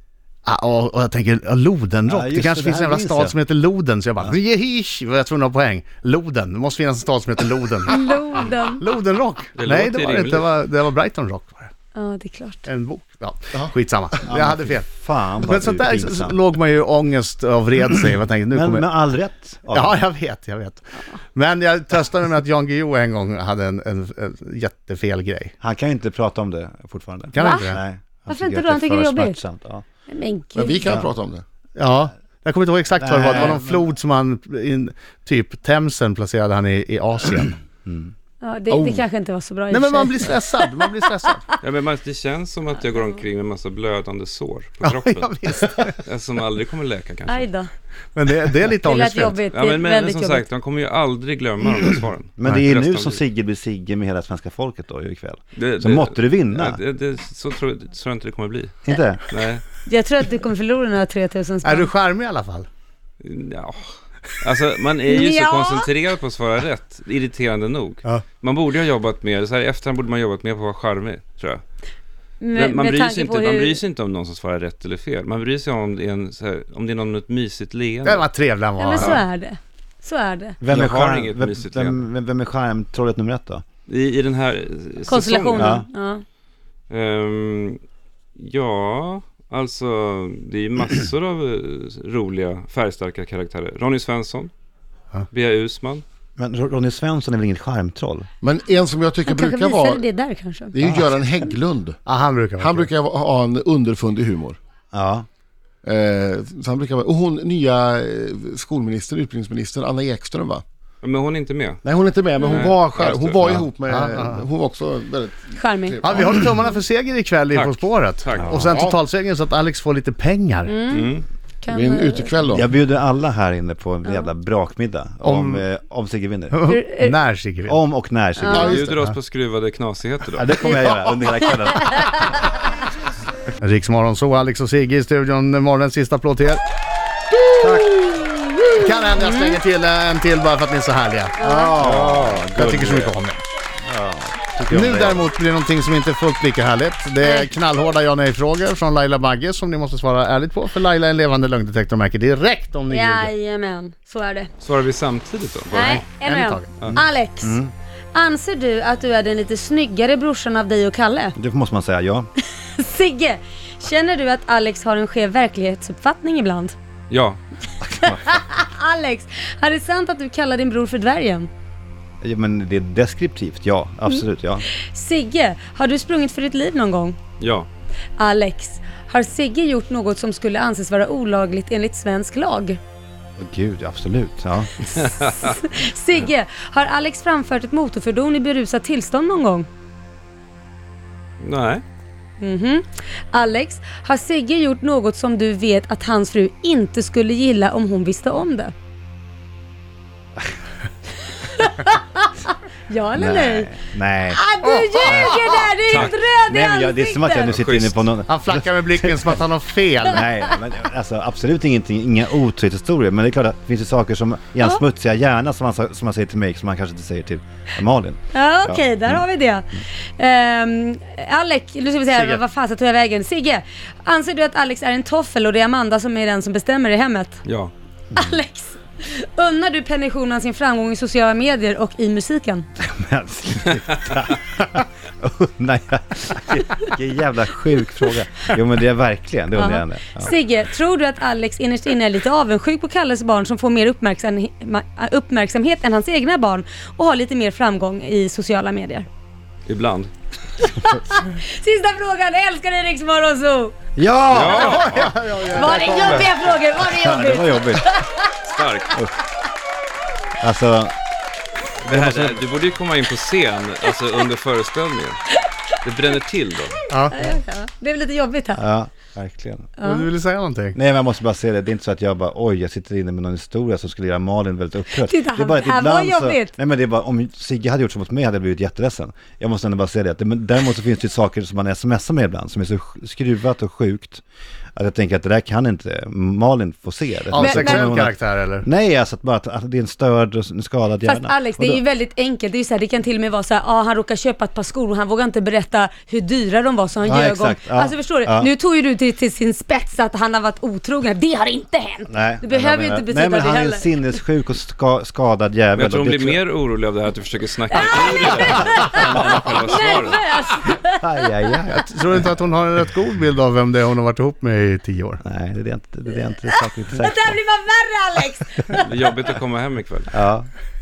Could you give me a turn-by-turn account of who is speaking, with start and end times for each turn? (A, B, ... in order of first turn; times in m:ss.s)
0:00.4-0:11.7 A
0:02.1-0:03.3 B
0:07.9-0:08.8 C
0:09.5-0:10.5 D
0:11.9-0:12.7 C
0:12.6-0:14.9 A
0:14.3-0:16.4 B
0:15.4-0:18.8 A
0:18.5-0:20.0 B
0:19.7-0:25.5 A
0:25.6-0:29.8 B
0:27.3-0:27.8 A
0:27.4-0:27.7 C
0:28.3-0:29.4 C
0:30.1-0:30.8 C
0:30.5-0:31.4 E
0:30.8-0:31.1 B
0:31.8-0:37.5 A
0:33.0-0:33.8 B
0:37.8-0:38.1 B
0:38.4-0:40.7 C
0:38.7-0:39.1 E
0:39.7-0:41.4 A
0:41.6-0:45.3 D
0:44.8-0:46.0 A
0:46.0-0:47.5 D
0:47.3-0:47.7 C
0:48.1-0:49.4 A
0:48.8-0:50.4 C
0:49.5-0:53.2 D
0:52.4-0:56.8 B
0:55.5-0:59.6 D
0:58.8-0:59.2 B
0:59.8-1:01.9 C
1:01.6-1:02.7 A
1:03.2-1:11.6 D
1:05.1-1:05.9 C
1:12.4-1:13.8 C
1:12.5-1:18.2 D
1:18.0-1:19.2 A
1:18.8-1:20.6 C
1:18.9-1:19.2 D
1:20.6-1:23.6 B
1:20.7-1:22.0 D
1:23.9-1:25.7 D
1:25.1-1:26.2 C
1:25.5-1:25.9 B
1:26.9-1:27.8 D
1:28.4-1:34.5 D
1:35.3-1:36.0 D
1:36.4-1:38.3 B
1:38.4-1:40.1 E
1:39.2-1:41.0 C
1:40.7-1:42.0 E
1:42.0-1:42.9 A
1:42.6-1:44.6 E
1:44.9-1:45.2 B
1:45.8-1:50.6 E
1:51.0-1:51.8 D
1:51.8-1:56.4 E
1:52.4-1:52.7 C
1:52.5-1:53.5 D
1:53.8-1:54.4 A
1:55.6-1:56.0 C
1:56.0-2:00.7 A
1:57.5-1:58.7 D
1:58.4-1:58.6 B
1:58.6-1:59.0 E
2:00.6-2:02.3 C
2:00.9-2:01.2 D
2:01.7-2:02.7 E
2:02.5-2:06.7 B
2:04.0-2:04.3 C
2:05.2-2:05.6 A
2:06.5-2:07.8 A
2:06.7-2:07.1 C
2:07.7-2:09.0 B
2:08.4-2:08.8 C
2:08.6-2:10.5 D
2:10.4-2:12.3 B
2:10.7-2:12.1 C
2:13.6-2:16.6 A
2:17.4-2:18.3 E
2:17.6-2:17.9 B
2:18.8-2:23.4 A
2:19.1-2:19.6 C
2:21.4-2:21.8 C
2:21.4-2:23.2 B
2:23.8-2:25.2 B
2:24.7-2:33.3 A
2:27.2-2:27.5 C
2:32.9-2:34.5 C
2:34.6-2:35.8 D
2:35.7-2:37.6 C
2:35.7-2:36.7 A
2:36.8-2:37.7 B
2:38.1-2:41.4 C
2:41.4-2:42.3 B
2:42.4-2:46.8 C
2:47.1-2:47.4 D
2:47.8-2:48.5 B
2:48.0-2:51.5 C
2:52.2-2:54.6 B
2:54.7-2:57.2 C
2:57.4-2:57.7 D
2:58.2-3:02.8 C
3:03.4-3:05.0 B
3:04.9-3:05.6 D
3:05.4-3:09.7 C
3:11.4-3:11.8 D
3:12.4-3:18.7 C
3:21.3-3:23.7 C
3:23.1-3:24.4 B
3:24.3-3:27.5 C
3:24.6-3:25.4 A
3:25.0-3:29.4 B
3:25.9-3:26.2 D
3:27.5-3:28.1 D
3:28.3-3:30.3 A
3:30.0-3:39.2 B
3:38.3-3:47.4 C
3:42.1-3:42.4 A
3:47.4-3:47.7 D
3:48.1-3:52.7 C
3:52.8-4:00.3 B
3:59.5-4:09.1 C
4:09.6-4:10.1 D
4:10.6-4:13.7 C
4:14.0-4:15.1 B
4:14.3-4:15.1 D
4:14.5-4:16.3 A
4:15.5-4:18.3 C
4:15.9-4:16.3 D
4:16.7-4:18.0 B
4:18.5-4:19.0 D
4:20.4-4:20.9 B
4:21.8-4:22.5 B
4:21.8-4:25.2 D
4:25.8-4:26.8 D
4:26.9-4:27.3 A
4:27.1-4:28.6 C
4:28.5-4:29.7 B
4:29.8-4:30.1 C
4:29.8-4:30.8 A
4:30.7-4:44.2 B
4:34.9-4:36.5 C
4:44.8-4:51.8 B
4:47.3-4:48.7 A
4:47.3-4:47.9 C
4:51.0-5:04.1 C
4:57.0-4:58.5 B
5:02.1-5:06.4 B
5:05.8-5:10.2 D
5:07.7-5:11.3 C
5:10.8-5:12.2 B
5:11.7-5:15.2 A
5:15.2-5:17.4 B
5:16.5-5:18.9 C
5:18.7-5:20.1 D
5:20.1-5:20.5 B